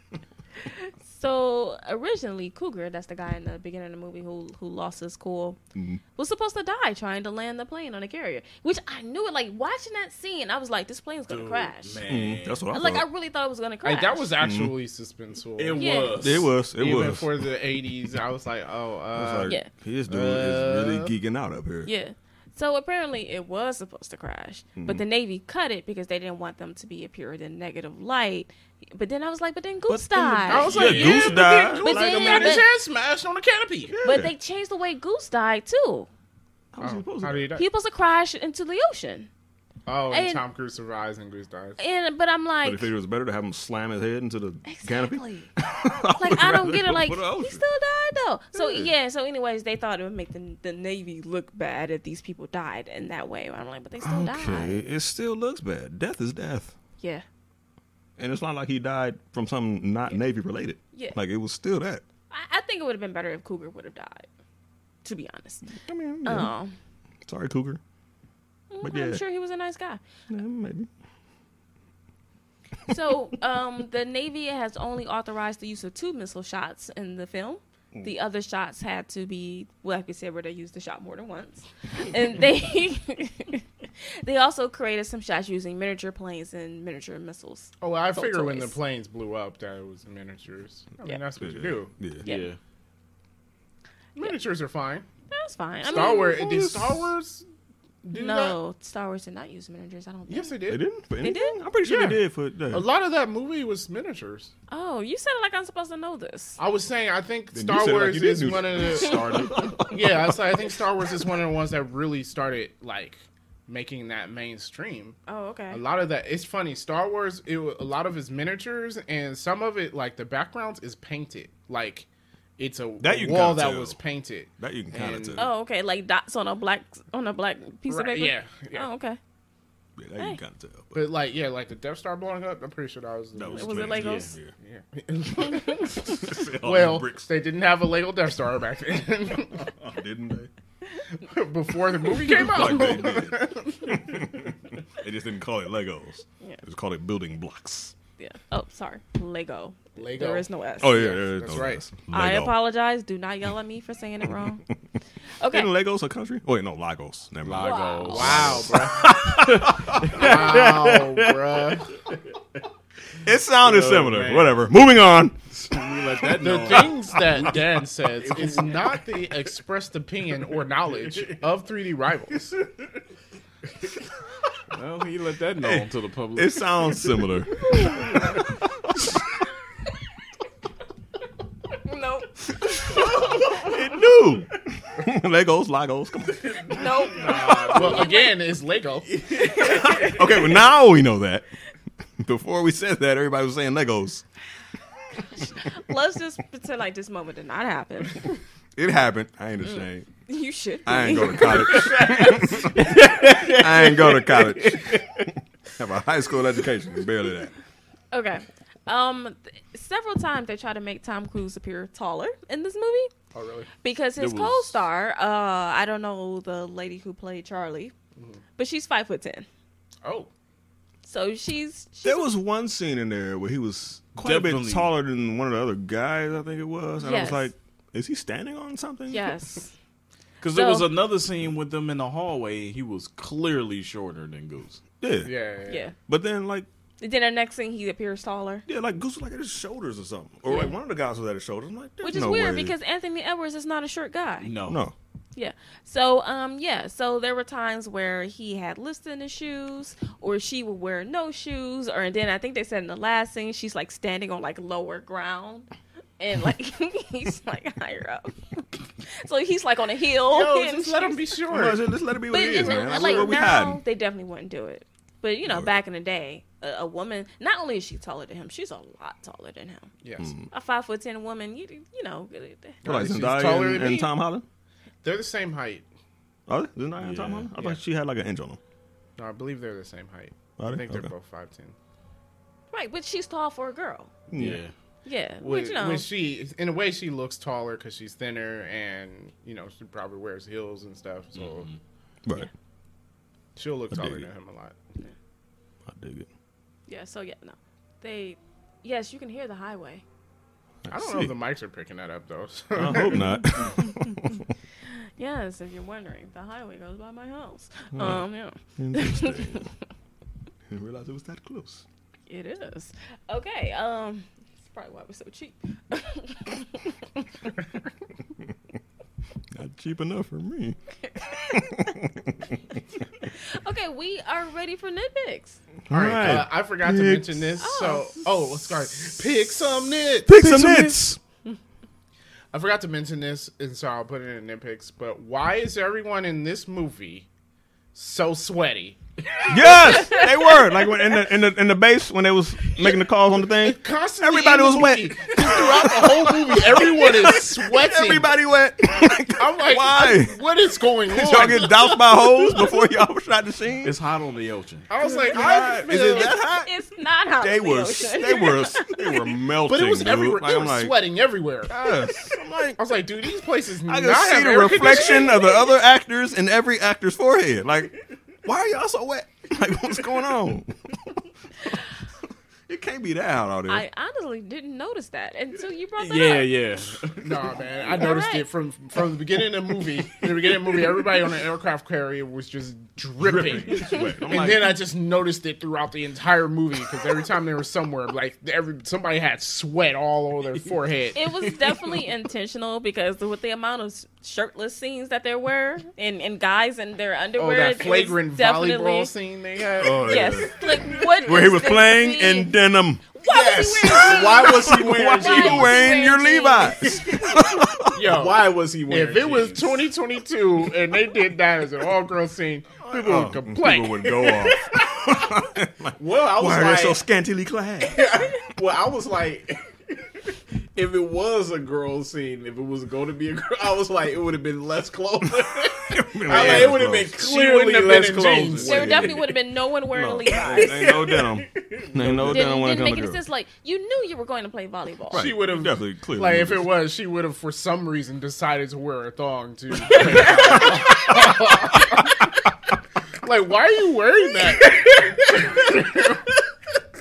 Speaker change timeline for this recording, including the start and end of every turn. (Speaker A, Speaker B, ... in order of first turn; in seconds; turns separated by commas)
Speaker A: 0.6-5.6, Speaker B: 5.7-6.0, Speaker A: 6.2-12.0, Speaker C: 11.3-12.6, Speaker B: 12.0-13.1, Speaker A: 12.7-14.3, Speaker D: 13.8-21.1, Speaker B: 14.4-14.7, Speaker C: 15.6-16.5, Speaker A: 15.8-16.2, Speaker B: 16.2-17.4, Speaker B: 19.1-21.9, Speaker A: 21.8-32.7, Speaker B: 24.8-25.0, Speaker B: 29.9-32.6, Speaker D: 30.4-34.0, Speaker C: 30.5-31.5, Speaker B: 33.9-34.3, Speaker A: 34.0-36.1, Speaker B: 36.7-37.5, Speaker D: 36.8-37.6, Speaker A: 37.5-39.3, Speaker D: 39.9-41.8, Speaker A: 40.1-40.4, Speaker A: 41.8-42.9, Speaker B: 42.6-47.6, Speaker A: 44.6-45.5, Speaker A: 46.1-54.8, Speaker B: 48.5-48.9, Speaker B: 54.0-56.8, Speaker A: 57.0-57.2, Speaker B: 58.2-62.0, Speaker A: 62.3-64.3, Speaker A: 65.0-65.7, Speaker B: 65.8-66.5, Speaker A: 66.2-66.8, Speaker B: 67.2-67.8, Speaker A: 68.7-70.0, Speaker B: 68.8-69.2, Speaker B: 70.3-70.9, Speaker A: 72.9-88.8, Speaker D: 87.8-91.9, Speaker B: 91.4-92.2, Speaker A: 92.2-92.5, Speaker C: 92.2-92.6, Speaker D: 94.2-95.0, Speaker A: 95.3-96.7, Speaker D: 95.8-97.4, Speaker B: 96.1-97.1, Speaker D: 98.0-98.6, Speaker A: 98.1-100.6, Speaker D: 100.3-100.8, Speaker B: 100.7-102.8, Speaker A: 101.2-101.6, Speaker D: 101.8-102.2, Speaker D: 102.7-104.5, Speaker A: 104.7-106.6, Speaker D: 106.6-115.2, Speaker B: 107.5-110.4, Speaker A: 115.3-115.8, Speaker D: 115.7-125.5, Speaker B: 123.0-124.0, Speaker B: 124.6-125.5, Speaker A: 125.3-129.2, Speaker D: 127.9-128.9, Speaker B: 130.0-130.9, Speaker D: 130.9-134.0, Speaker B: 133.3-134.5, Speaker A: 133.5-134.3, Speaker C: 134.0-134.3, Speaker D: 134.6-139.7, Speaker B: 136.1-137.2, Speaker B: 139.6-140.5, Speaker D: 141.2-144.5, Speaker B: 142.2-147.9, Speaker A: 148.2-151.0, Speaker D: 150.0-151.8, Speaker B: 150.8-152.5, Speaker A: 152.1-154.6, Speaker A: 155.4-155.7, Speaker B: 155.5-161.8, Speaker C: 157.4-158.9, Speaker A: 157.6-158.6, Speaker D: 158.1-162.0, Speaker C: 159.6-160.3, Speaker B: 163.2-165.4, Speaker C: 163.6-164.6, Speaker C: 165.5-169.0, Speaker D: 166.4-172.6, Speaker C: 174.7-178.4, Speaker B: 175.6-178.0, Speaker A: 181.7-183.2, Speaker B: 182.8-186.6, Speaker C: 182.9-183.9, Speaker C: 186.3-188.2, Speaker A: 186.7-188.3, Speaker D: 187.7-189.2, Speaker C: 189.1-190.4, Speaker A: 189.4-190.2, Speaker B: 189.9-191.4, Speaker B: 192.2-194.2, Speaker A: 195.4-198.3, Speaker B: 198.8-200.1, Speaker A: 199.6-202.6, Speaker B: 200.8-207.5, Speaker C: 201.4-205.2, Speaker A: 208.1-213.1, Speaker D: 213.3-213.7, Speaker A: 213.8-217.9, Speaker C: 214.2-214.8, Speaker D: 218.2-218.4, Speaker A: 218.6-219.4, Speaker D: 220.0-220.3, Speaker A: 221.0-222.3, Speaker B: 222.0-229.3, Speaker C: 224.2-224.9, Speaker A: 227.0-227.5, Speaker A: 229.1-229.7, Speaker C: 230.4-234.8, Speaker A: 230.5-230.9, Speaker B: 235.0-235.3, Speaker D: 235.2-235.8, Speaker A: 235.7-235.9, Speaker B: 236.1-236.7, Speaker A: 237.0-238.6, Speaker B: 238.7-242.7, Speaker A: 240.5-240.7, Speaker A: 242.0-244.5, Speaker C: 244.4-244.8, Speaker B: 244.7-244.9, Speaker A: 245.3-261.3, Speaker D: 260.3-261.8, Speaker B: 261.5-263.8, Speaker A: 262.3-269.9, Speaker D: 262.8-263.3, Speaker B: 265.4-265.7, Speaker D: 270.0-270.3, Speaker B: 270.2-270.5, Speaker A: 270.5-272.8, Speaker D: 272.8-274.1, Speaker B: 272.8-274.4, Speaker D: 275.0-275.8, Speaker B: 276.5-278.6, Speaker C: 277.0-277.5, Speaker D: 277.5-277.8, Speaker D: 279.2-281.7, Speaker B: 280.6-281.1, Speaker A: 282.7-284.1, Speaker B: 284.3-284.6, Speaker C: 284.4-284.7, Speaker A: 285.0-286.1, Speaker D: 285.4-291.7, Speaker C: 291.3-291.8, Speaker D: 293.6-294.8, Speaker B: 293.9-294.2, Speaker B: 295.9-296.3, Speaker A: 296.9-300.0, Speaker B: 300.8-301.3, Speaker D: 300.9-303.4, Speaker B: 302.7-304.5, Speaker A: 304.8-309.7, Speaker B: 307.9-309.6, Speaker B: 310.7-311.8, Speaker A: 312.3-317.2, Speaker B: 319.5-320.8, Speaker A: 321.1-321.9, Speaker B: 321.3-322.6, Speaker A: 323.2-325.6, Speaker B: 325.9-327.4, Speaker D: 325.9-330.3, Speaker A: 327.6-328.2, Speaker B: 330.3-331.2, Speaker C: 330.4-331.1, Speaker D: 332.5-337.3, Speaker D: 337.9-339.7, Speaker C: 339.3-339.9, Speaker B: 339.5-350.4, Speaker A: 339.8-340.3, Speaker D: 343.4-348.3, Speaker D: 349.3-352.7, Speaker B: 351.1-354.0, Speaker C: 353.8-354.9, Speaker D: 354.9-356.4, Speaker A: 355.0-359.3, Speaker B: 355.3-356.7, Speaker B: 357.4-360.9, Speaker D: 359.6-361.9, Speaker B: 361.7-362.9, Speaker D: 362.8-365.6, Speaker B: 363.8-371.2, Speaker B: 372.7-373.8, Speaker A: 373.7-376.5, Speaker C: 376.0-377.6, Speaker D: 377.2-391.2, Speaker A: 377.8-378.5, Speaker C: 380.2-381.1, Speaker B: 383.2-384.8, Speaker A: 391.1-399.1, Speaker C: 391.3-391.7, Speaker D: 397.4-400.5, Speaker B: 399.8-403.0, Speaker A: 399.9-402.6, Speaker A: 403.1-407.1, Speaker C: 403.2-405.8, Speaker B: 403.9-408.0, Speaker C: 406.9-407.3, Speaker D: 407.9-414.3, Speaker C: 407.9-409.9, Speaker B: 412.8-418.2, Speaker C: 414.2-415.2, Speaker C: 416.0-417.0, Speaker C: 417.8-429.2, Speaker B: 425.9-427.1, Speaker D: 426.3-428.9, Speaker B: 428.6-429.3, Speaker A: 428.6-431.1, Speaker B: 429.9-433.2, Speaker C: 430.3-432.6, Speaker A: 432.2-435.3, Speaker B: 435.1-436.7, Speaker D: 435.1-442.4, Speaker C: 439.9-440.8, Speaker B: 440.9-442.0, Speaker D: 443.2-446.2, Speaker C: 444.6-446.1